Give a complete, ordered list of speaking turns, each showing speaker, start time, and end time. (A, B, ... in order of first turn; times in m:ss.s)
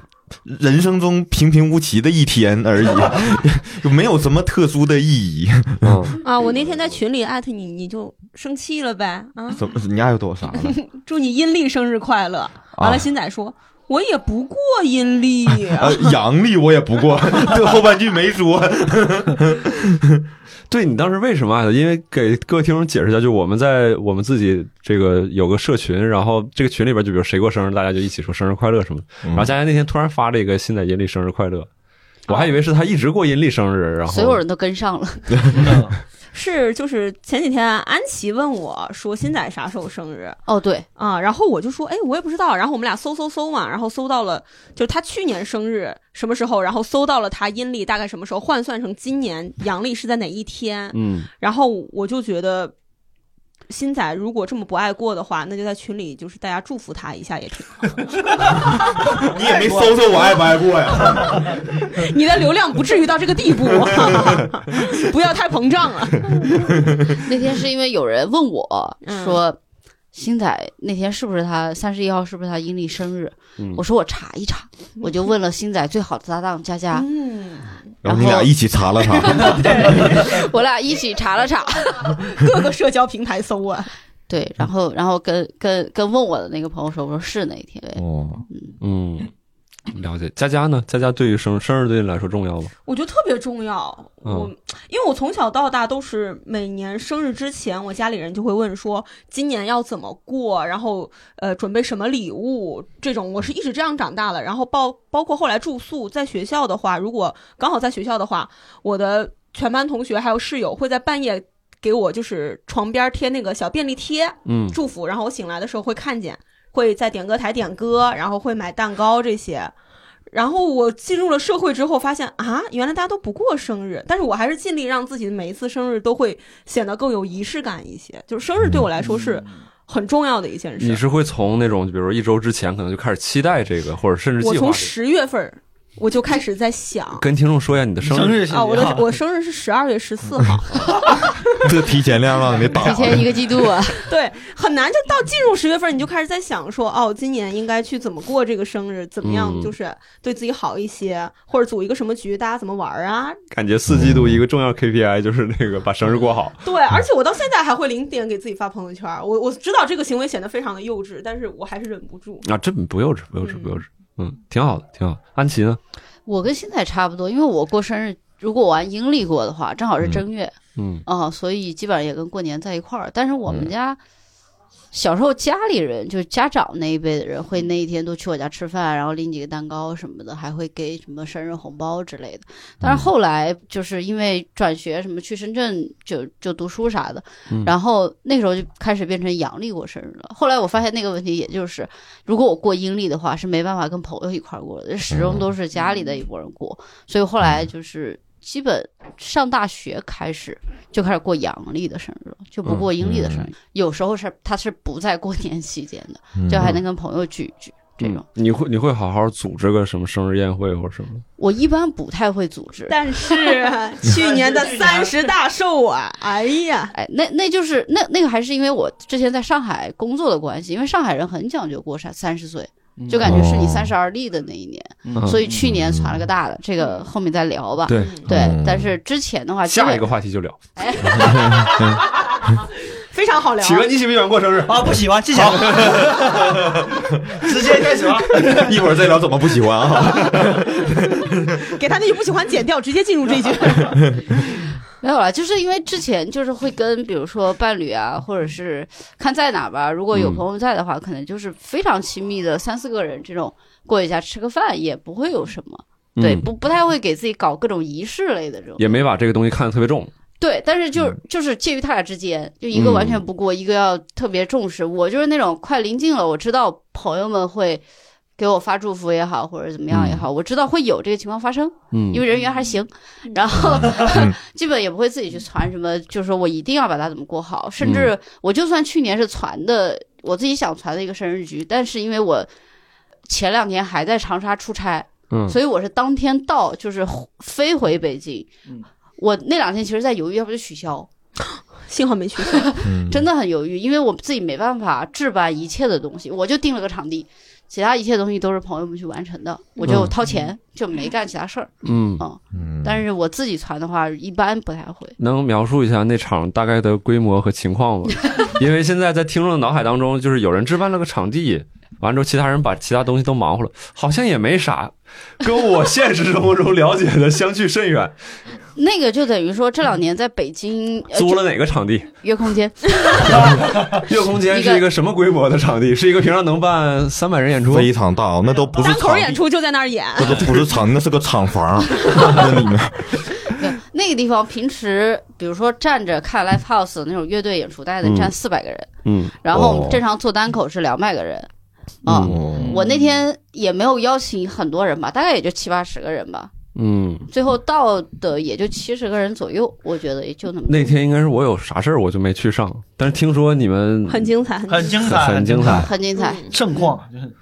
0:00.4-0:06.2 A
0:05.8-0:06.2 B
0:06.2-0:09.6 C
0:09.5-0:10.8 A
0:10.6-0:16.2 C
0:12.8-0:13.1 A
0:15.7-0:20.2 A
0:20.7-0:31.7 B
0:29.3-0:29.5 A
0:32.3-0:34.4 B
0:34.1-0:35.7 D
0:35.5-0:36.0 E
0:36.3-0:40.4 C
0:40.5-0:40.9 D
0:41.0-0:52.8 C
0:50.9-0:51.3 B
0:53.7-0:59.1 C
0:58.9-1:01.6 A
0:59.2-1:00.2 E
1:01.2-1:01.6 E
1:01.8-1:06.6 C
1:03.8-1:04.4 A
1:06.6-1:07.0 A
1:07.2-1:09.6 D
1:09.1-1:09.4 C
1:10.1-1:17.1 D
1:16.9-1:17.8 C
1:18.0-1:18.5 D
1:18.0-1:20.0 A
1:19.2-1:20.4 C
1:19.4-1:22.2 D
1:22.1-1:23.9 C
1:24.3-1:28.7 D
1:28.0-1:28.4 A
1:28.8-1:29.3 B
1:29.9-1:32.7 B
1:32.9-1:59.7 C
1:34.2-1:34.5 B
1:54.5-1:54.8 B
2:00.3-2:11.0 C
2:09.0-2:09.5 E
2:10.8-2:14.9 B
2:14.4-2:17.3 C
2:17.2-2:18.5 B
2:18.0-2:19.2 E
2:18.5-2:21.7 C
2:21.6-2:23.4 A
2:22.8-2:24.1 D
2:24.0-2:33.4 C
2:29.2-2:29.7 B
2:33.5-2:36.6 B
2:33.9-2:34.4 A
2:36.6-2:42.4 C
2:42.4-2:45.8 B
2:43.4-2:43.8 C
2:46.3-2:50.5 D
2:50.8-2:51.0 B
2:51.1-2:54.0 D
2:54.9-3:28.2 D
3:02.8-3:03.1 A
3:15.1-3:15.5 A
3:23.0-3:23.5 A
3:26.4-3:26.8 A
3:28.0-3:31.2 B
3:31.4-3:33.6 D
3:32.9-3:36.9 C
3:34.1-3:35.2 E
3:36.9-3:50.0 D
3:43.0-3:43.3 E
3:43.2-3:43.9 A
3:45.0-3:45.7 E
3:45.5-3:46.3 A
3:47.9-3:48.5 B
3:48.0-3:48.3 C
3:48.3-3:48.9 A
3:49.7-3:50.6 B
3:50.8-3:51.9 D
3:51.2-3:52.0 A
3:52.9-3:53.9 C
3:53.6-3:56.7 B
3:54.7-3:56.7 E
3:57.3-3:58.8 E
3:58.6-4:01.6 A
4:01.6-4:04.2 C
4:05.0-4:18.9 D
4:10.1-4:10.4 B
4:16.2-4:16.5 B
4:18.8-4:20.1 B
4:20.4-4:27.8 D
4:22.7-4:23.2 B
4:28.4-4:42.5 D
4:29.9-4:30.2 B
4:31.9-4:32.2 B
4:34.0-4:34.4 A
4:37.8-4:38.1 B
4:43.3-4:48.5 D
4:45.3-4:45.6 B
4:49.2-4:51.1 D
4:51.6-4:52.9 C
4:52.6-5:05.2 D
4:52.8-4:53.3 A
4:59.8-5:00.1 C
4:59.8-5:00.1 B
5:01.8-5:02.2 B
5:02.5-5:03.0 A
5:05.2-5:18.1 B
5:18.8-5:21.5 D
5:21.1-5:22.1 B
5:22.2-5:23.7 D
5:23.2-5:27.9 B
5:24.4-5:24.9 D
5:27.7-5:29.4 A
5:28.8-5:30.5 C
5:30.2-5:33.3 A
5:33.5-5:38.9 D
5:38.0-5:38.3 B
5:39.0-5:39.4 B
5:39.4-5:41.5 D
5:39.5-5:40.0 A
5:42.0-5:46.5 D
5:42.1-5:42.4 B
5:42.2-5:42.8 A
5:42.5-5:43.0 E
5:46.8-5:47.3 B
5:47.3-5:51.0 D
5:50.7-5:54.3 B
5:54.1-5:55.1 C
5:54.7-5:57.3 E
5:55.0-5:55.9 B
5:55.6-5:56.6 D
5:56.1-5:56.9 C